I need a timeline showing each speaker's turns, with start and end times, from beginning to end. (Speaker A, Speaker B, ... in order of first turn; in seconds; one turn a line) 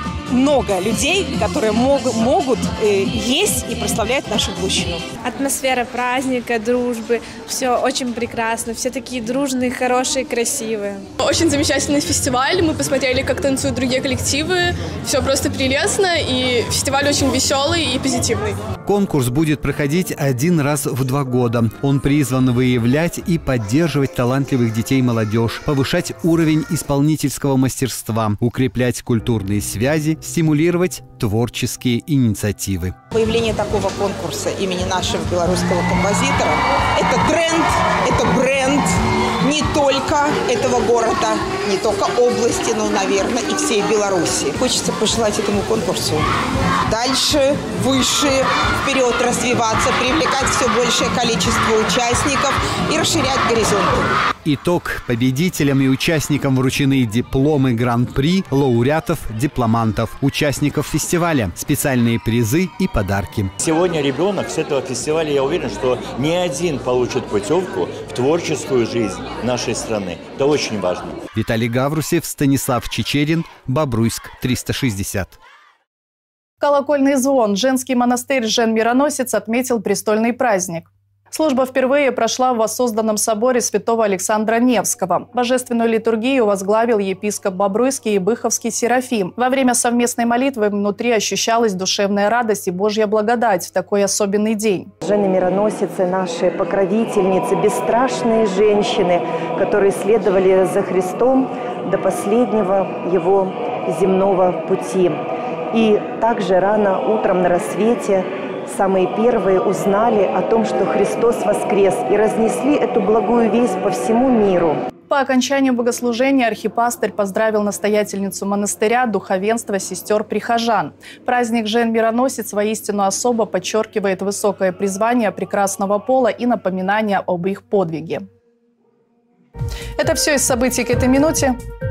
Speaker A: 0.3-5.1
Speaker B: 5.2-11.1
Speaker C: 11.2-18.6
Speaker D: 18.8-32.9
Speaker A: 33.1-46.3
Speaker A: 46.9-54.1
Speaker D: 54.5-63.5
Speaker E: 63.6-71.2
Speaker D: 71.3-75.4
Speaker F: 76.6-94.9
Speaker G: 95.0-105.2
Speaker G: 105.7-114.8
Speaker F: 115.1-128.3
Speaker F: 130.0-131.6